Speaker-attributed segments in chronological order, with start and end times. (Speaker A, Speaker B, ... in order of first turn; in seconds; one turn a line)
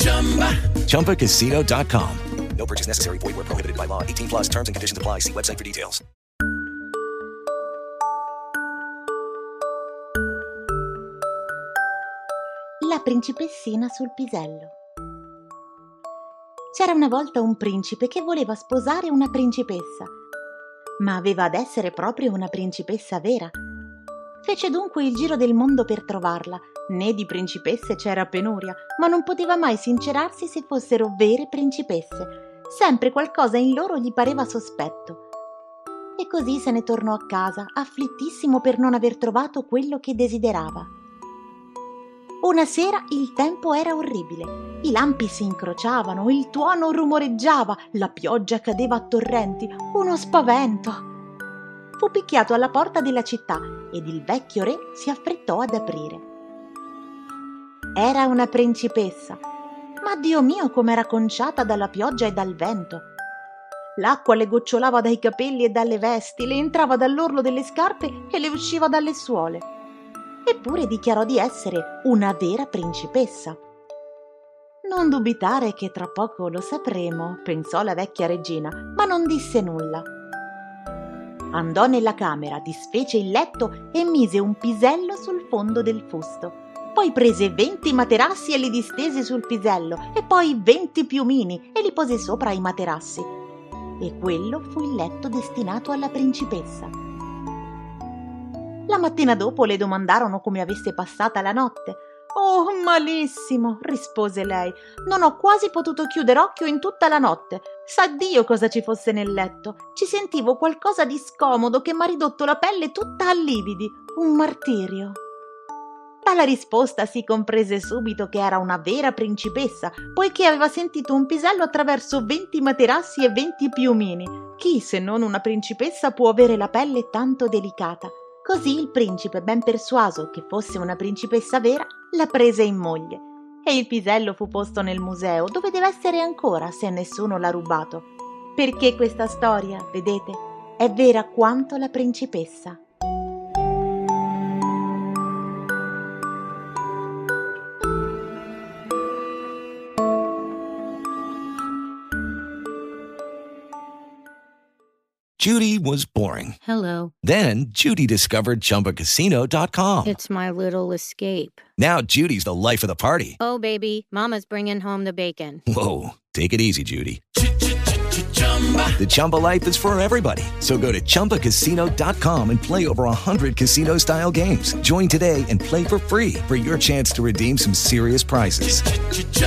Speaker A: 0.7-6.0
Speaker B: 12.8-14.7
Speaker B: 16.7-20.1
Speaker B: 21.0-23.6
Speaker B: 24.4-35.2
Speaker B: 36.2-40.9
Speaker B: 42.4-51.1
Speaker B: 52.0-56.2
Speaker B: 57.9-59.4
Speaker B: 60.0-63.1
Speaker B: 64.0-69.7
Speaker B: 70.5-73.6
Speaker B: 74.8-80.1
Speaker B: 81.5-93.3
Speaker B: 94.0-97.0
Speaker B: 98.9-115.2
Speaker B: 116.2-142.8
Speaker A: 155.4-156.6
Speaker C: 156.6-157.1
Speaker A: 157.2-160.2
Speaker C: 160.0-161.6
Speaker A: 161.8-163.4
Speaker C: 163.4-165.6
Speaker A: 165.7-167.2
Speaker A: 168.9-179.1